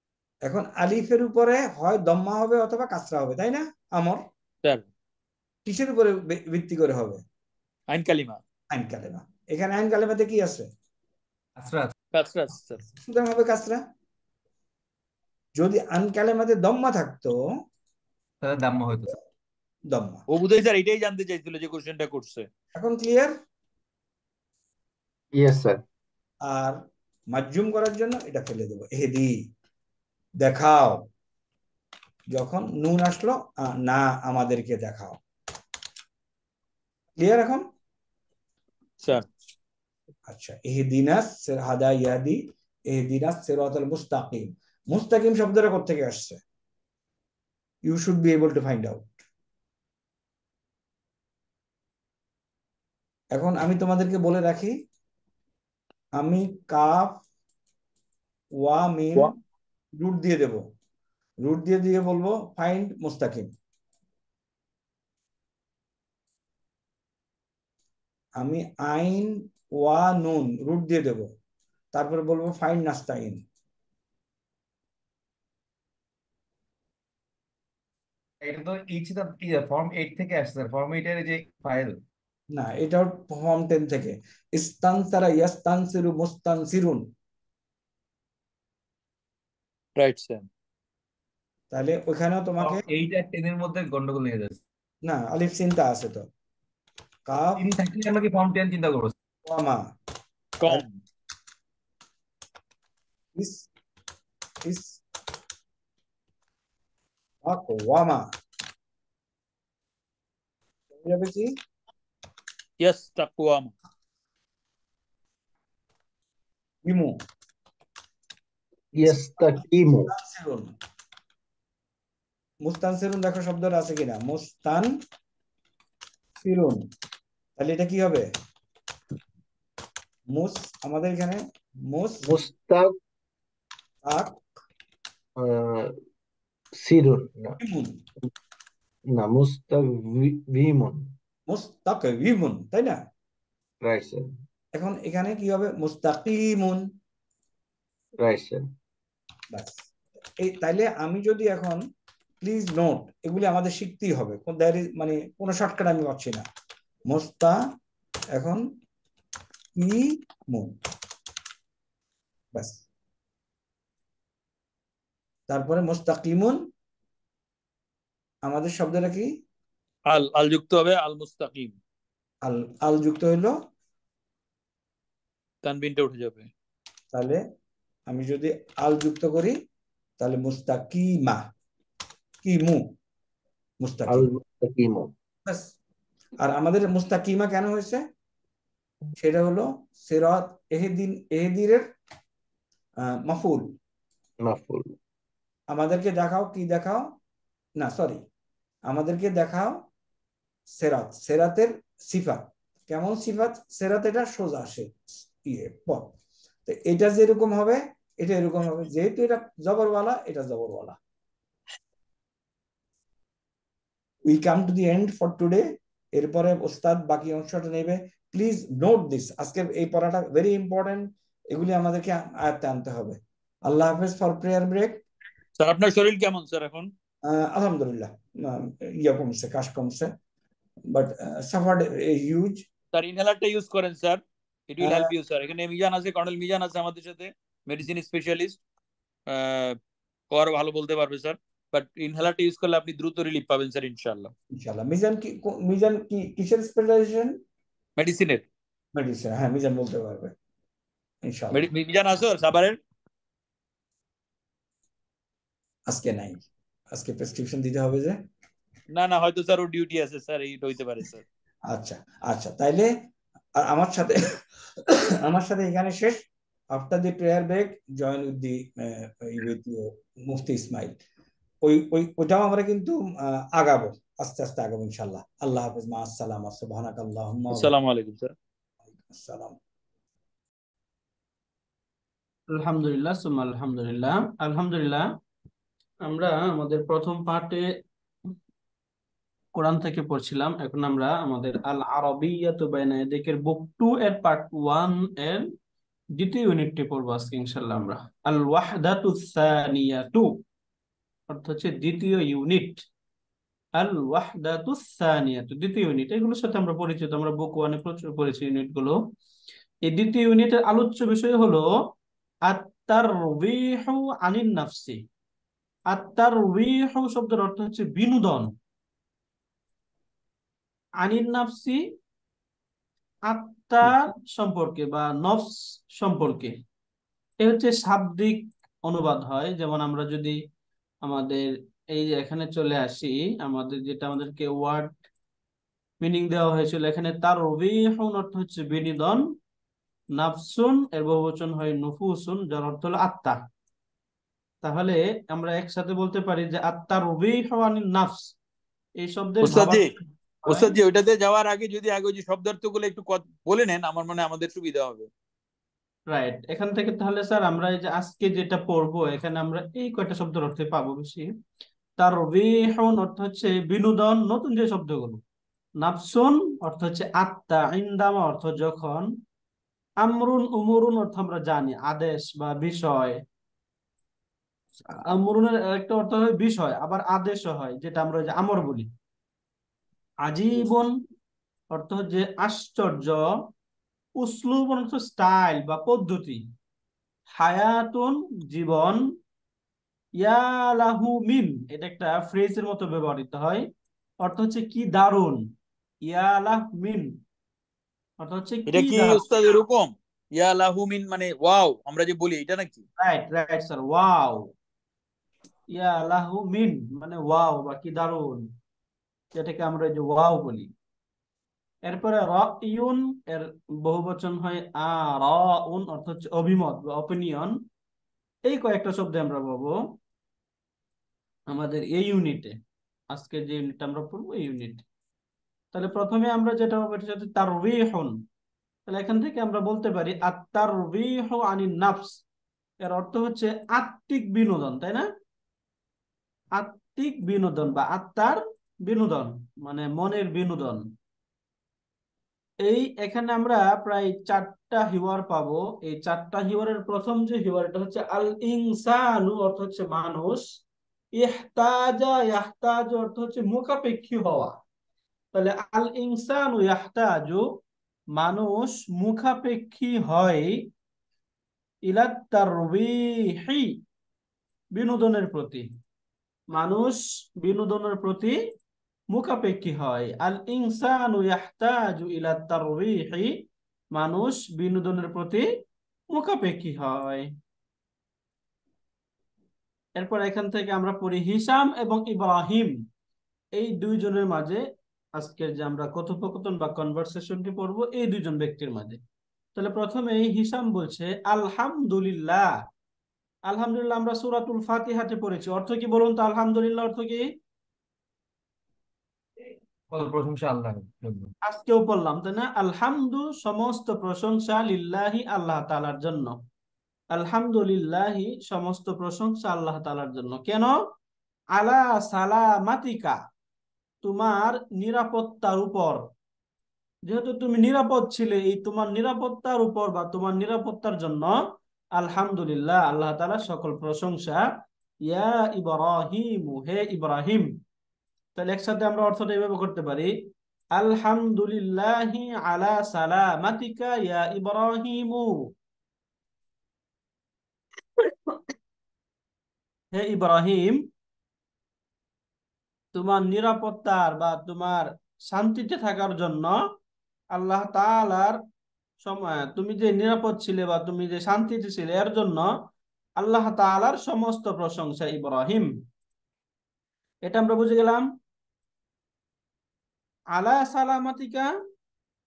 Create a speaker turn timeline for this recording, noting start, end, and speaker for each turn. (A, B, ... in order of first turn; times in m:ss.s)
0:00.4-0:04.2 A
0:05.6-0:07.2 A
0:07.9-0:08.4 B
0:08.7-0:10.7 A
0:11.6-0:11.9 C
0:12.1-0:12.8 B
0:12.9-0:13.8 A
0:15.6-0:17.4 A
0:18.4-0:19.2 C
0:19.9-0:20.2 A
0:20.3-0:22.5 B
0:22.7-0:23.3 A
0:25.4-0:25.8 D
0:26.4-0:26.8 A
0:27.3-0:29.4 A
0:30.4-0:31.1 A
0:32.3-0:35.2 A
0:37.2-0:37.6 A
0:39.0-0:39.3 B
0:40.3-0:46.4 A
0:47.9-0:49.2 A
0:53.3-0:54.7 A
0:56.2-0:57.2 A
0:58.6-0:59.3 A
1:00.0-1:00.6 A
1:01.4-1:03.5 A
1:08.4-1:11.3 A
1:11.9-1:13.4 A
1:18.4-1:22.0 C
1:22.5-1:27.1 A
1:30.0-1:30.4 B
1:31.7-1:32.8 A
1:32.6-1:34.6 C
1:35.0-1:36.3 A
1:37.3-1:37.6 A
1:37.6-1:39.1 C
1:39.5-1:39.9 A
1:40.6-1:40.9 B
1:43.4-1:43.7 A
1:44.6-1:45.0 A
1:47.4-1:48.2 A
1:51.0-1:51.5 A
1:52.8-1:53.7 B
1:56.8-1:57.2 A
1:59.0-2:00.1 D
1:59.1-2:00.7 A
2:02.6-2:05.0 A
2:06.4-2:06.8 A
2:07.6-2:08.3 A
2:10.3-2:12.4 A
2:12.2-2:12.9 D
2:14.0-2:14.4 A
2:15.4-2:15.9 D
2:16.8-2:17.6 D
2:17.6-2:18.0 A
2:19.1-2:21.0 D
2:21.5-2:23.0 A
2:23.8-2:24.2 D
2:24.7-2:26.8 A
2:28.2-2:28.6 D
2:29.5-2:29.8 A
2:30.4-2:31.8 A
2:32.4-2:36.4 A
2:37.1-2:37.6 A
2:38.3-2:38.6 A
2:39.8-2:40.7 A
2:42.5-2:42.8 A
2:45.5-2:46.6 A
2:48.4-2:49.3 A
2:50.1-2:51.8 B
2:52.4-2:53.5 A
2:55.6-2:56.5 B
2:57.1-2:57.4 A
2:58.1-2:59.5 A
3:00.2-3:01.4 A
3:02.4-3:02.8 A
3:03.8-3:04.3 A
3:04.1-3:05.1 D
3:06.4-3:08.0 A
3:09.2-3:11.8 A
3:13.2-3:13.7 A
3:14.4-3:15.0 D
3:15.7-3:17.1 A
3:17.8-3:18.2 A
3:18.9-3:19.8 A
3:20.8-3:24.9 A
3:25.4-3:26.1 A
3:26.6-3:31.0 A
3:34.2-3:35.6 A
3:36.2-3:45.0 A
3:45.6-3:46.9 B
3:47.2-3:50.1 A
3:50.9-3:52.6 A
3:52.9-3:58.6 B
3:54.8-3:55.1 A
3:59.3-3:59.8 B
4:00.3-4:04.3 B
4:04.5-4:07.4 A
4:08.0-4:08.4 B
4:08.9-4:10.3 A
4:11.2-4:11.6 A
4:11.5-4:12.8 B
4:15.9-4:18.2 A
4:18.9-4:21.2 B
4:21.7-4:22.9 A
4:23.6-4:24.1 A
4:24.9-4:26.2 A
4:26.7-4:31.0 A
4:31.6-4:33.0 A
4:33.5-4:37.7 A
4:37.5-4:38.3 B
4:39.1-4:39.6 A
4:42.5-4:45.0 E
4:46.0-4:47.6 E
4:49.5-4:55.4 E
4:56.2-5:00.3 E
5:01.3-5:02.8 E
5:03.8-5:09.0 E
5:09.8-5:11.7 E
5:12.5-5:15.0 E
5:15.9-5:18.5 E
5:21.0-5:21.8 E
5:23.3-5:26.5 E
5:27.4-5:30.4 E
5:31.0-5:34.9 E
5:36.0-5:39.2 E
5:40.2-5:43.4 E
5:44.6-5:48.3 E
5:49.0-5:49.9 E
5:49.4-5:49.9 B
5:50.4-5:50.7 E
5:50.5-5:55.1 B
5:56.1-6:01.3 E
6:02.0-6:05.2 E
6:05.8-6:09.1 E
6:10.0-6:13.2 E
6:15.1-6:18.9 E
6:20.2-6:21.0 E
6:21.7-6:23.2 E
6:24.2-6:26.4 E
6:27.3-6:29.0 E
6:30.2-6:33.6 E
6:34.2-6:35.4 E
6:36.0-6:37.1 E
6:38.2-6:39.2 E
6:38.7-6:42.8 B
6:43.0-6:44.5 E
6:45.7-6:48.5 E
6:49.3-6:50.7 E
6:51.8-6:57.5 E
6:58.4-6:59.8 E
7:01.5-7:02.5 E
7:03.1-7:04.8 E
7:05.7-7:08.1 E
7:08.9-7:12.2 E
7:12.8-7:15.0 E
7:16.6-7:20.8 E
7:22.6-7:30.4 E
7:31.1-7:34.5 E
7:35.3-7:37.4 E
7:38.1-7:40.6 E
7:41.9-7:43.8 E
7:44.7-7:45.7 E
7:46.5-7:48.3 E
7:49.1-7:53.4 E
7:53.9-7:55.4 E
7:56.1-7:57.3 E
8:00.0-8:02.7 E
8:03.6-8:04.6 E
8:05.2-8:09.0 E
8:09.6-8:12.5 E
8:13.5-8:17.2 E
8:19.9-8:21.3 C
8:21.4-8:26.4 E
8:27.1-8:30.7 E
8:31.6-8:33.2 E
8:34.0-8:36.0 E
8:37.0-8:41.4 E
8:42.0-8:44.5 E
8:45.1-8:47.5 E
8:48.4-8:50.1 E
8:50.8-8:55.3 E
8:58.0-8:58.4 E
8:59.9-9:00.8 E
9:02.9-9:06.6 E
9:07.3-9:08.4 E
9:09.0-9:12.5 E
9:13.2-9:15.7 E
9:17.2-9:18.0 E
9:20.3-9:21.5 E